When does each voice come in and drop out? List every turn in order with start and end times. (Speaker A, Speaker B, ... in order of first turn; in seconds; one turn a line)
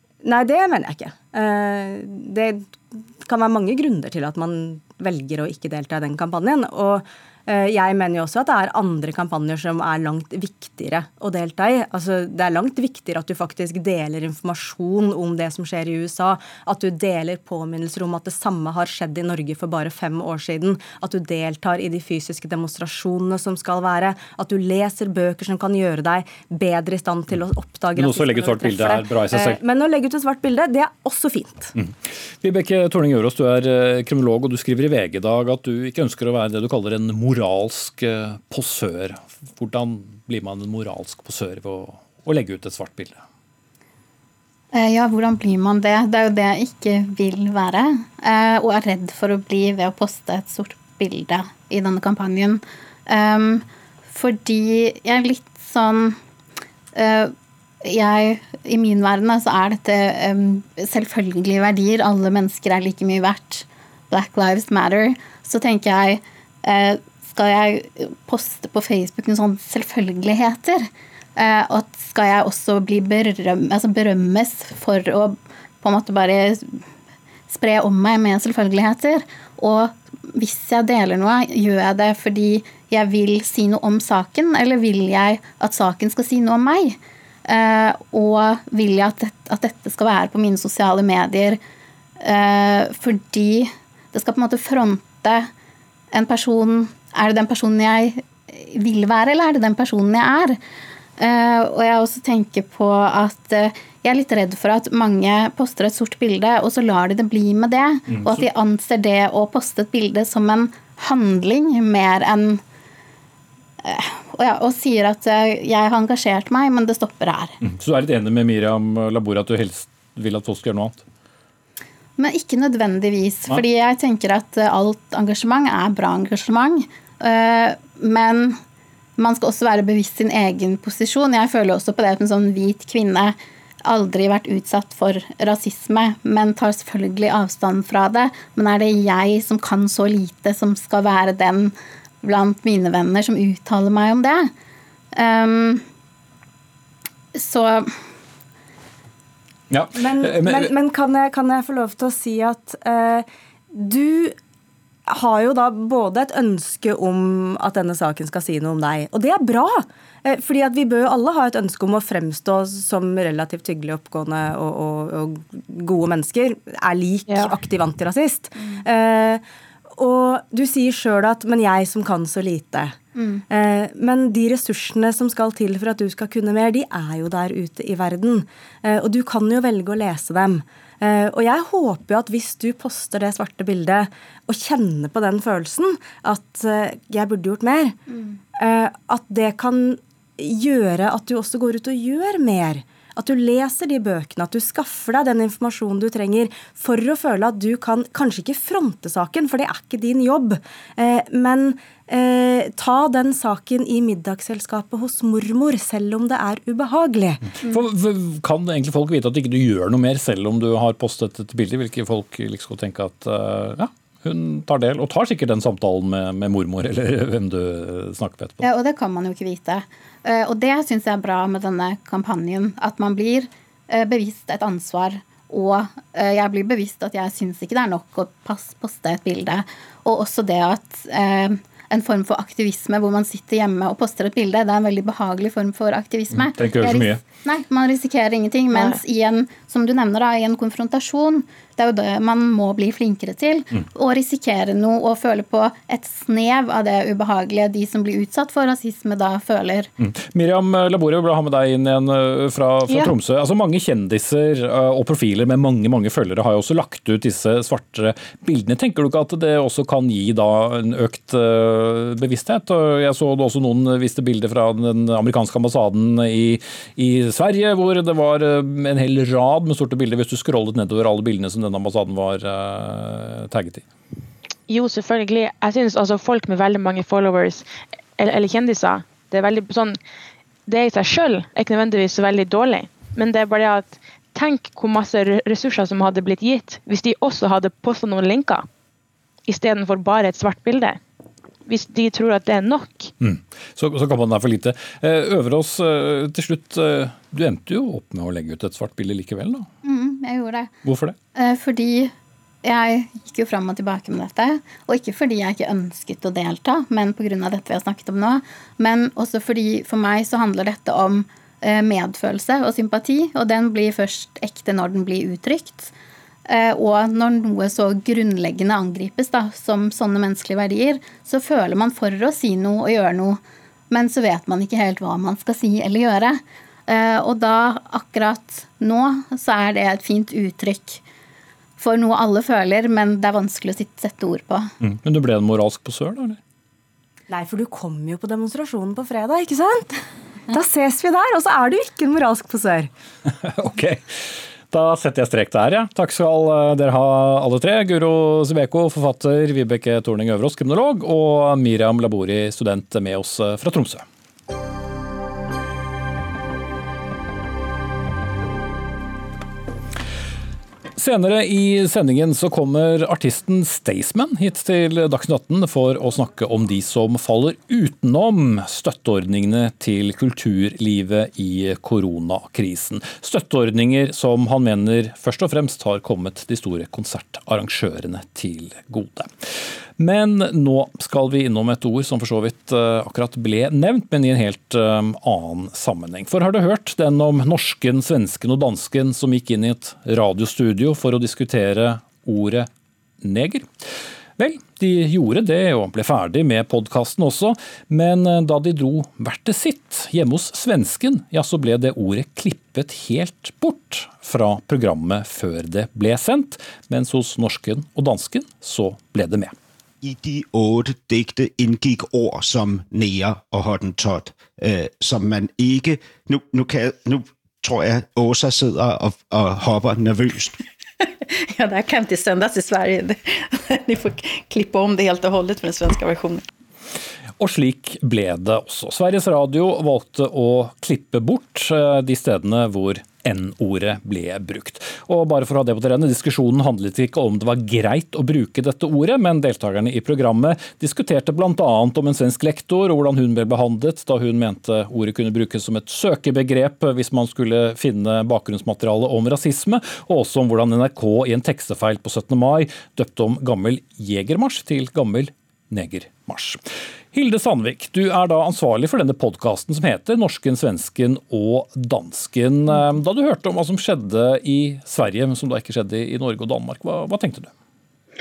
Speaker A: 0.2-31.7
Speaker B: 27.9-29.6
Speaker B: 31.8-43.2
Speaker C: 44.7-56.2
Speaker C: 56.9-57.3
Speaker C: 57.8-76.8
Speaker C: 77.5-91.6
Speaker C: 92.2-95.5
Speaker C: 96.1-100.6
Speaker C: 101.2-112.6
Speaker B: 108.1-108.4
Speaker C: 113.8-117.6
Speaker B: 117.6-121.0
Speaker C: 122.2-128.6
Speaker C: 129.2-144.5
Speaker C: 145.1-145.8
Speaker C: 147.3-147.9
Speaker B: 149.7-150.7
Speaker A: 149.9-154.3
Speaker A: 155.1-169.4
Speaker D: 167.3-167.5
Speaker A: 170.0-173.0
Speaker C: 173.1-173.4
Speaker A: 173.5-188.0
Speaker A: 188.6-207.5
Speaker B: 207.6-218.6
Speaker C: 218.6-249.9
Speaker B: 236.3-237.2
Speaker B: 250.0-273.8
Speaker D: 274.7-277.6
Speaker D: 278.2-280.0
Speaker D: 280.7-288.6
Speaker D: 289.4-291.0
Speaker D: 291.6-293.1
Speaker B: 293.2-299.7
Speaker C: 299.8-300.7
Speaker B: 300.8-301.1
Speaker C: 301.4-302.1
Speaker C: 302.6-315.9
Speaker C: 316.5-331.0
Speaker C: 331.8-334.7
Speaker B: 334.8-336.4
Speaker A: 337.3-340.0
Speaker A: 340.5-342.9
Speaker B: 343.3-344.1
Speaker B: 344.7-354.0
Speaker B: 361.0-379.3
Speaker B: 380.0-392.7
Speaker B: 393.2-393.6
Speaker B: 394.4-409.5
Speaker E: 410.0-420.5
Speaker F: 421.5-426.4
Speaker B: 427.4-456.6
Speaker B: 457.1-467.5